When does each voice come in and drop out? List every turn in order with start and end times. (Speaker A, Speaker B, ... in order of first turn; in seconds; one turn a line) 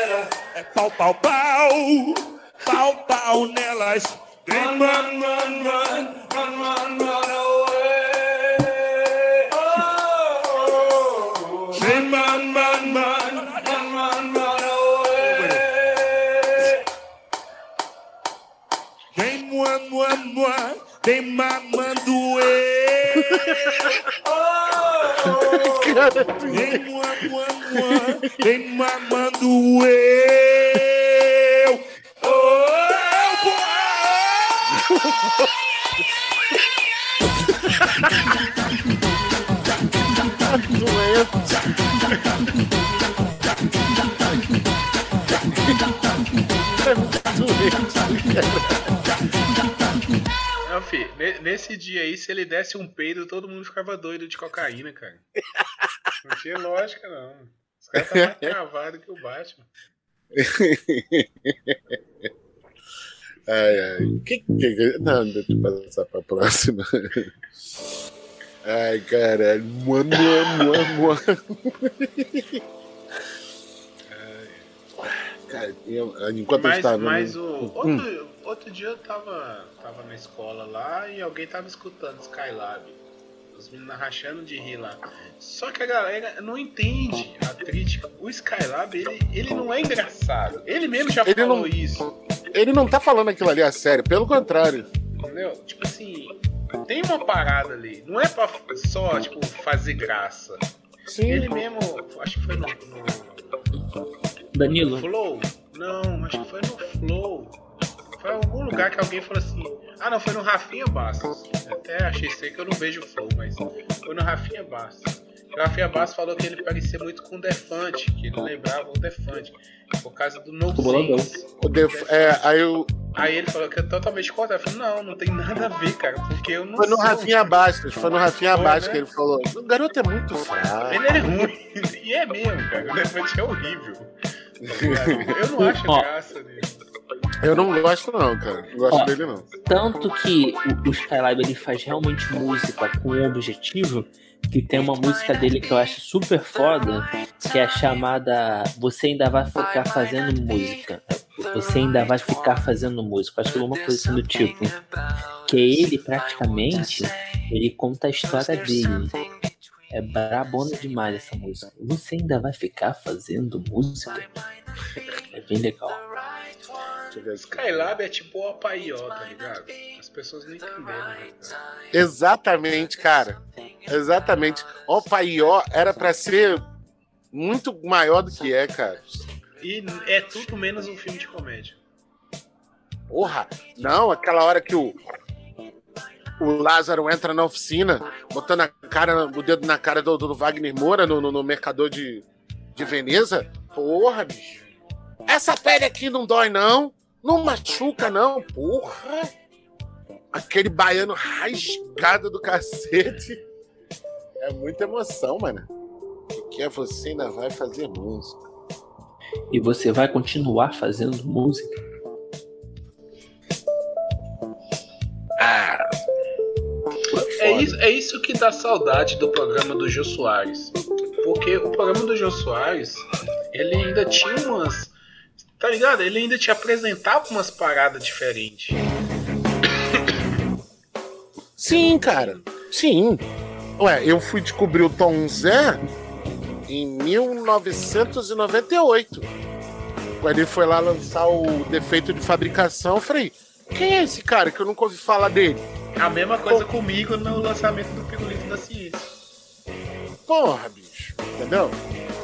Speaker A: 0.3-6.6
Speaker A: 9.4-9.9
Speaker A: 11.7-16.8
Speaker A: 19.1-35.0
Speaker B: 23.1-24.0
Speaker B: 25.3-26.8
Speaker B: 27.7-28.4
Speaker B: 37.6-38.3
Speaker B: 40.4-41.6
Speaker B: 46.8-48.9
Speaker C: 50.6-55.2
Speaker B: 55.5-56.1
Speaker C: 56.2-59.7
Speaker B: 58.0-58.5
Speaker B: 60.3-62.0
Speaker B: 63.5-67.3
Speaker B: 68.6-72.6
Speaker C: 74.1-74.7
Speaker B: 75.0-78.0
Speaker C: 76.5-83.0
Speaker C: 83.5-92.1
Speaker B: 91.2-91.7
Speaker B: 92.5-94.9
Speaker C: 95.1-100.7
Speaker B: 101.1-101.6
Speaker C: 101.2-103.4
Speaker D: 104.5-105.1
Speaker C: 104.9-107.6
Speaker C: 108.2-122.5
Speaker D: 120.7-121.3
Speaker B: 121.6-122.9
Speaker C: 123.0-127.5
Speaker B: 126.8-131.1
Speaker C: 128.5-129.0
Speaker C: 130.9-136.8
Speaker B: 134.6-135.3
Speaker D: 135.6-136.1
Speaker B: 137.4-139.5
Speaker D: 139.7-154.8
Speaker D: 155.4-159.2
Speaker D: 159.9-164.3
Speaker D: 165.3-166.0
Speaker B: 167.1-167.9
Speaker C: 167.4-171.6
Speaker B: 171.9-176.6
Speaker B: 177.3-179.2
Speaker C: 179.6-181.8
Speaker B: 183.1-185.0
Speaker B: 186.4-192.2
Speaker B: 192.8-194.6
Speaker B: 195.2-199.3
Speaker B: 200.3-203.4
Speaker B: 204.4-205.7
Speaker B: 206.3-208.4
Speaker D: 209.5-211.8
Speaker B: 215.4-215.9
Speaker B: 217.1-217.8
Speaker C: 217.4-224.9
Speaker C: 225.6-228.8
Speaker B: 231.6-233.2
Speaker C: 231.9-232.4
Speaker B: 233.8-235.8
Speaker B: 236.7-239.3
Speaker B: 240.2-245.7
Speaker C: 246.0-249.1
Speaker B: 250.3-251.8